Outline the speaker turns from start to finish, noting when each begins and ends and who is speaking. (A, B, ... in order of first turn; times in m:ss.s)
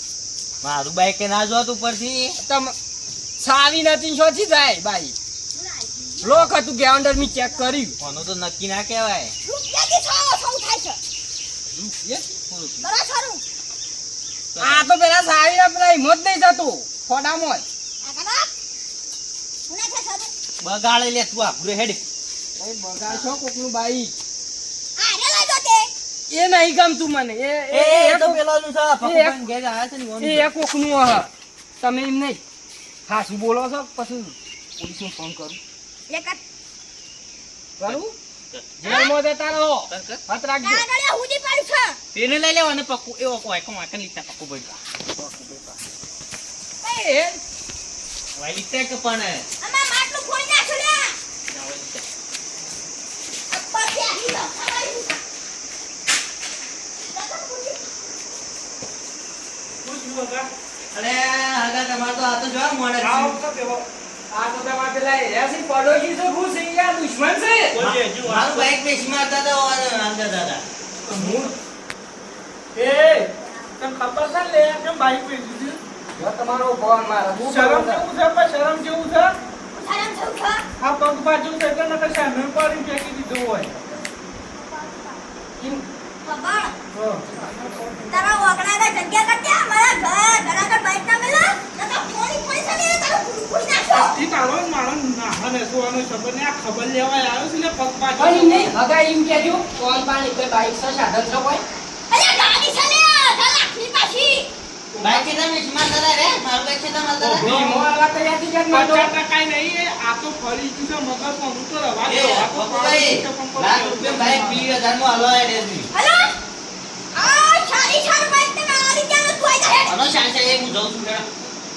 0:00.6-0:02.4 A
0:02.4-0:02.7 B
0:03.4-0:05.1 B
0:05.5-0:06.5 C
0:06.2-0:07.9 B
0:07.2-0:07.8 C
0:08.0-0:09.3 A
0:09.4-0:11.0 C
0:11.7-0:12.3 B
0:12.5-0:12.8 A
0:12.8-0:13.4 C
0:14.5-0:14.9 A
0:14.6-0:17.6 B
0:18.0-0:18.5 C
0:19.7-0:20.3 C
0:20.6-0:22.0 A
0:22.6-0:24.1 B
0:23.1-0:23.4 A
0:25.0-0:25.9 C
0:26.3-0:28.4 B
0:27.7-0:30.5 A
0:29.0-0:29.4 B
0:30.2-0:32.4 B
0:33.1-0:35.6 B
0:36.1-0:36.4 C
0:37.8-0:38.1 B
0:37.8-0:39.1 A
0:38.8-0:40.8 B
0:38.9-0:39.1 C
0:39.9-0:40.2 A
0:40.6-0:42.0 C
0:42.1-0:44.8 A
0:45.2-0:45.8 B
0:46.8-0:47.4 B
0:48.4-0:49.4 A
0:49.6-0:51.2 C
0:51.5-0:52.0 A
0:53.5-0:55.2 C
0:57.1-0:57.8 C
0:59.8-1:00.5 D
1:00.9-1:03.3 A
1:03.0-1:03.8 D
1:04.3-1:07.7 B
1:07.7-1:08.7 D
1:07.7-1:10.7 A
1:11.1-1:11.5 D
1:11.1-1:11.5 B
1:12.7-1:15.8 D
1:16.1-1:18.0 B
1:17.4-1:19.3 D
1:19.7-1:20.6 C
1:20.8-1:23.8 D
1:25.6-1:25.8 B
1:26.2-1:26.8 C
1:26.9-1:28.3 D
1:27.3-1:28.0 B
1:28.1-1:34.2 C
1:33.9-1:38.7 D
1:38.2-1:41.6 B
1:42.1-1:44.5 C
1:44.9-1:45.3 D
1:45.0-1:47.5 A
1:47.2-1:47.8 D
1:47.4-1:49.1 B
1:48.7-1:54.7 D
1:52.0-1:55.9 A
1:55.9-1:56.3 C
1:57.1-2:00.0 C
1:59.8-2:01.3 A